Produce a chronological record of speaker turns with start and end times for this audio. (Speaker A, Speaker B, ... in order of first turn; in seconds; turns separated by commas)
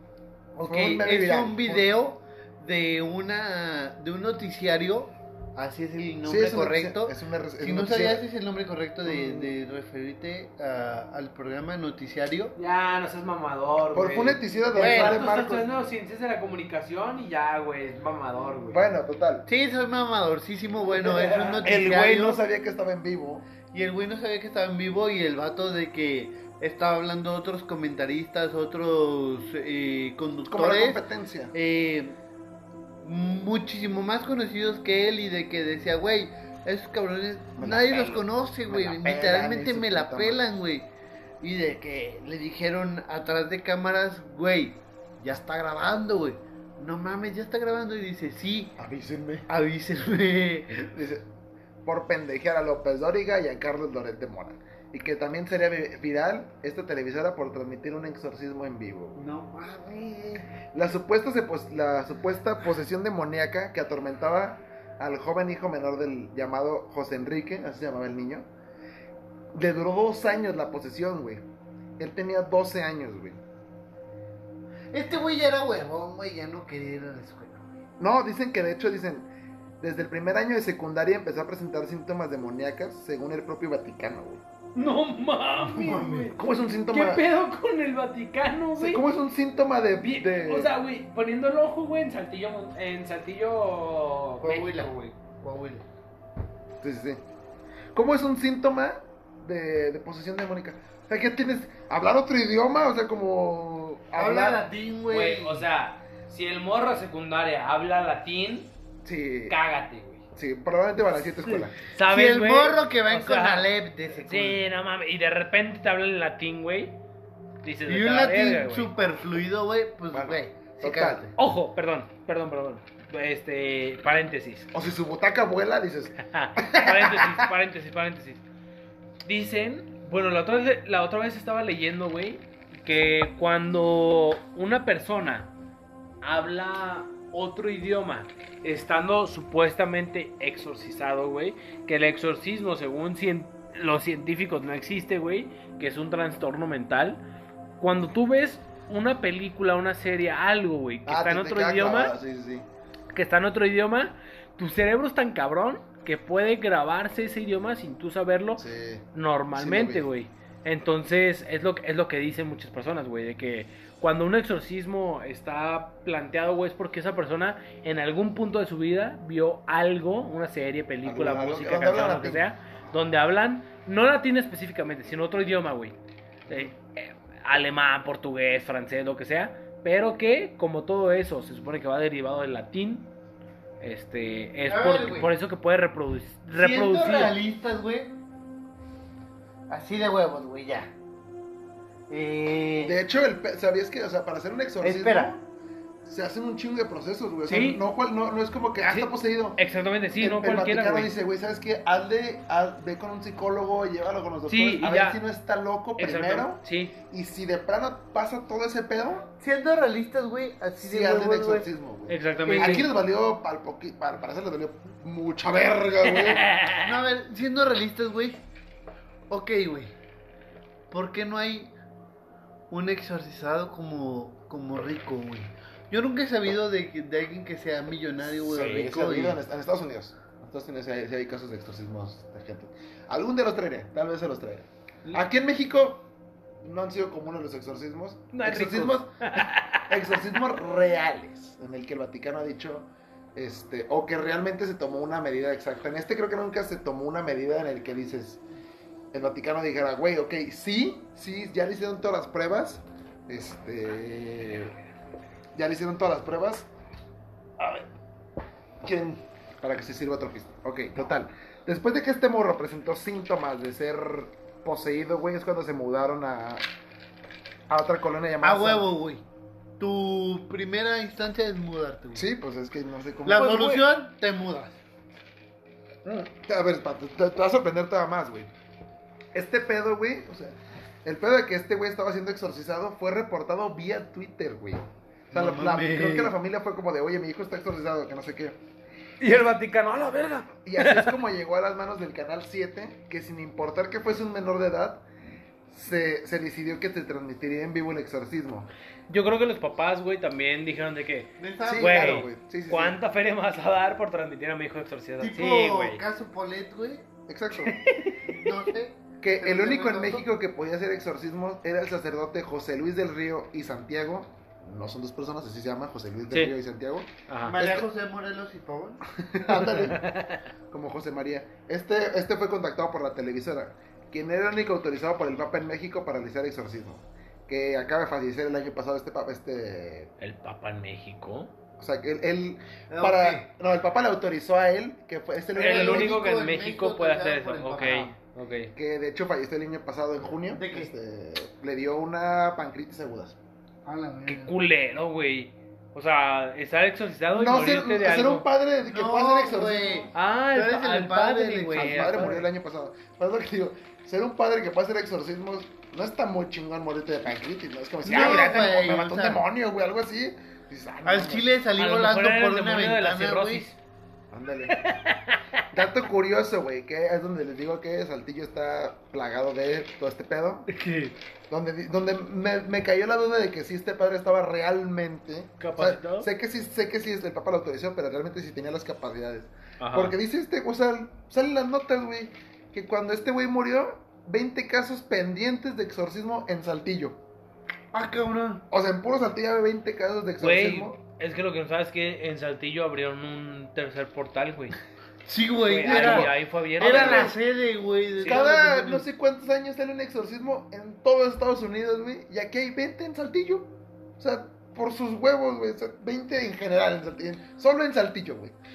Speaker A: 0.6-1.9, Speaker B: 0.6-12.6, Speaker A: 6.2-8.2, Speaker A: 9.0-9.5, Speaker C: 12.6-18.8, Speaker A: 13.9-15.7, Speaker B: 14.7-15.2, Speaker A: 18.7-19.4, Speaker B: 19.4-22.4, Speaker C: 20.9-21.8, Speaker A: 21.6-23.4, Speaker B: 23.7-31.0, Speaker A: 30.5-31.5, Speaker B: 31.5-32.2, Speaker B: 33.0-40.9, Speaker A: 37.6-40.4, Speaker B: 41.4-48.8, Speaker A: 48.8-49.5, Speaker B: 49.5-50.9, Speaker A: 50.9-51.3, Speaker A: 51.8-59.2, Speaker B: 59.1-60.5, Speaker A: 60.7-68.5, Speaker A: 69.5-71.5, Speaker A: 72.0-73.4, Speaker B: 74.9-77.7, Speaker A: 78.0-79.3, Speaker A: 79.8-84.4, Speaker C: 84.7-89.0, Speaker B: 85.6-86.3, Speaker A: 86.3-87.2, Speaker A: 88.8-90.7, Speaker C: 90.0-95.1, Speaker B: 94.4-95.8, Speaker A: 96.8-97.2, Speaker A: 97.9-104.6, Speaker B: 104.1-105.7, Speaker C: 105.1-108.7, Speaker A: 109.0-109.5, Speaker C: 109.5-110.2, Speaker A: 110.3-111.8, Speaker C: 111.4-117.0, Speaker B: 112.1-114.6, Speaker C: 117.6-118.9, Speaker B: 117.9-121.3, Speaker A: 120.1-121.2, Speaker C: 121.4-124.7, Speaker A: 124.7-127.5, Speaker C: 126.2-128.4, Speaker C: 129.2-135.5, Speaker C: 136.2-147.2, Speaker C: 147.8-152.1, Speaker A: 151.1-152.7, Speaker C: 153.1-175.9, Speaker A: 158.6-160.1, Speaker A: 171.0-172.5, Speaker C: 176.5-183.1, Speaker C: 183.8-187.3, Speaker B: 184.7-185.3, Speaker B: 186.5-188.1, Speaker B: 189.7-190.9, Speaker B: 192.1-193.0, Speaker A: 192.8-195.4, Speaker B: 194.8-195.3, Speaker A: 196.0-199.6, Speaker C: 197.4-197.8, Speaker C: 198.8-201.1, Speaker A: 200.2-209.3, Speaker C: 204.5-205.2, Speaker C: 206.0-206.9, Speaker B: 209.4-211.7, Speaker A: 210.8-216.4, Speaker C: 212.1-212.9, Speaker B: 212.5-212.9, Speaker C: 216.1-216.9, Speaker B: 216.8-218.4, Speaker B: 219.3-219.9, Speaker B: 220.9-221.7, Speaker B: 222.7-229.4, Speaker A: 228.4-236.1, Speaker A: 236.6-248.4, Speaker C: 238.3-240.0, Speaker A: 249.1-254.7, Speaker A: 255.5-256.7, Speaker A: 257.6-257.9, Speaker A: 258.8-266.6, Speaker A: 267.7-268.9, Speaker B: 268.4-269.2, Speaker B: 269.8-272.3, Speaker A: 272.1-273.7, Speaker B: 273.2-274.8, Speaker C: 273.4-273.8, Speaker A: 276.0-278.5, Speaker A: 279.3-288.6, Speaker B: 285.3-286.3, Speaker C: 289.2-291.1, Speaker A: 290.6-295.0, Speaker A: 295.7-298.7, Speaker C: 299.1-306.0, Speaker B: 301.4-302.2, Speaker A: 301.6-303.0, Speaker B: 305.2-307.1, Speaker A: 307.3-307.8, Speaker C: 307.6-308.5, Speaker B: 308.3-310.3, Speaker A: 309.2-317.9, Speaker C: 317.3-317.6, Speaker B: 317.4-319.0, Speaker A: 319.2-320.0, Speaker C: 319.7-320.4, Speaker A: 320.7-330.1, Speaker C: 330.2-331.5, Speaker A: 331.8-336.2, Speaker B: 332.9-333.5, Speaker B: 335.5-338.1, Speaker C: 335.6-338.7, Speaker A: 338.7-343.4, Speaker B: 340.5-340.9, Speaker B: 343.9-344.5, Speaker C: 344.2-348.4, Speaker A: 347.3-350.1, Speaker B: 348.8-352.4, Speaker C: 350.1-352.4, Speaker A: 351.8-361.5, Speaker B: 358.0-359.4, Speaker C: 358.2-358.4, Speaker B: 361.0-363.7, Speaker C: 361.8-363.8, Speaker A: 364.3-364.8, Speaker C: 364.7-365.4, Speaker A: 365.7-370.7, Speaker C: 370.7-371.1, Speaker A: 371.5-387.2, Speaker C: 375.6-376.3, Speaker C: 379.8-380.1, Speaker B: 387.9-388.6, Speaker A: 388.7-391.0, Speaker C: 390.4-394.8, Speaker B: 395.2-399.1, Speaker C: 395.6-397.4, Speaker A: 395.9-397.3, Speaker C: 398.2-398.5, Speaker A: 398.2-408.5